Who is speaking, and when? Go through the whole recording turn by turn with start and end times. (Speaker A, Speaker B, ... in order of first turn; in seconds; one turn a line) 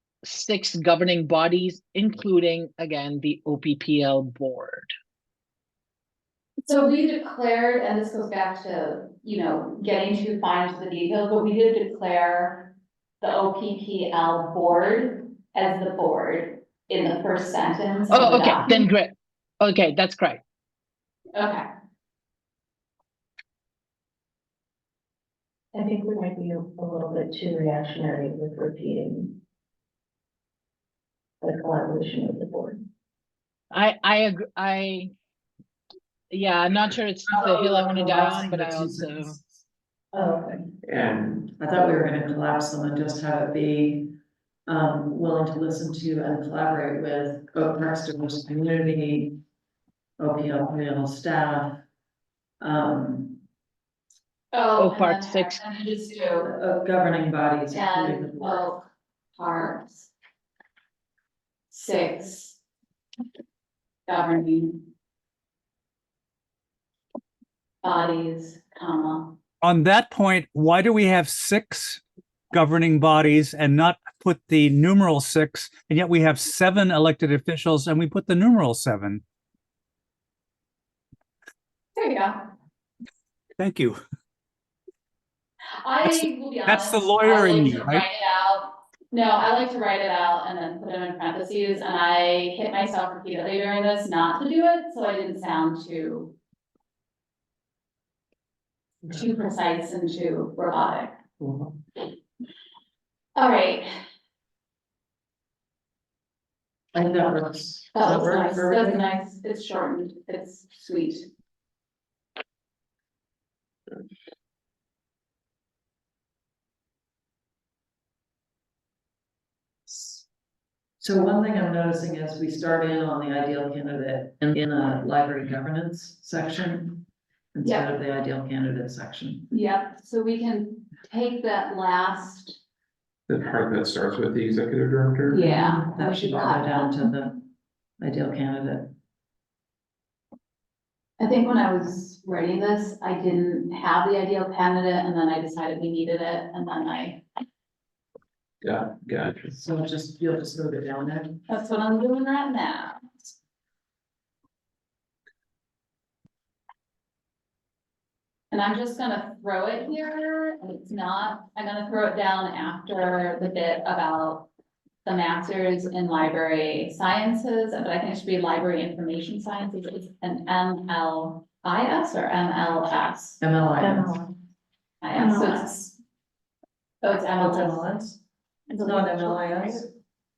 Speaker A: 0.2-4.9
Speaker B: 6.6-18.8
Speaker A: 18.1-20.4
Speaker B: 21.4-21.6
Speaker C: 25.7-29.4
Speaker C: 31.4-32.8
Speaker A: 33.7-35.1
Speaker A: 36.3-39.4
Speaker D: 37.3-39.4
Speaker C: 40.1-40.6
Speaker E: 40.8-41.4
Speaker D: 41.3-44.1
Speaker D: 44.7-49.4
Speaker D: 50.2-51.8
Speaker D: 52.6-53.4
Speaker B: 54.5-56.5
Speaker A: 54.8-55.6
Speaker D: 56.4-58.7
Speaker B: 57.7-60.1
Speaker B: 61.7-62.6
Speaker B: 64.1-64.9
Speaker B: 67.8-69.4
Speaker F: 69.6-79.2
Speaker B: 82.0-82.4
Speaker F: 83.6-84.0
Speaker B: 85.8-96.3
Speaker F: 86.0-88.0
Speaker B: 99.0-101.2
Speaker D: 101.4-101.8
Speaker B: 103.3-103.9
Speaker D: 106.9-109.1
Speaker B: 107.9-111.3
Speaker D: 119.9-120.2
Speaker D: 121.0-129.5
Speaker B: 127.6-127.9
Speaker B: 129.5-132.6
Speaker E: 133.3-135.4
Speaker B: 135.3-136.9
Speaker D: 135.3-138.9
Speaker B: 141.2-147.2
Speaker E: 148.6-149.5
Speaker D: 149.5-151.4
Speaker B: 151.5-153.1
Speaker B: 158.5-164.5
Speaker B: 165.0-173.4
Speaker D: 173.4-174.2
Speaker C: 173.8-174.3
Speaker B: 175.0-175.9
Speaker C: 175.1-175.7
Speaker B: 177.0-177.8
Speaker D: 177.4-178.2
Speaker C: 178.7-179.8
Speaker D: 178.8-179.9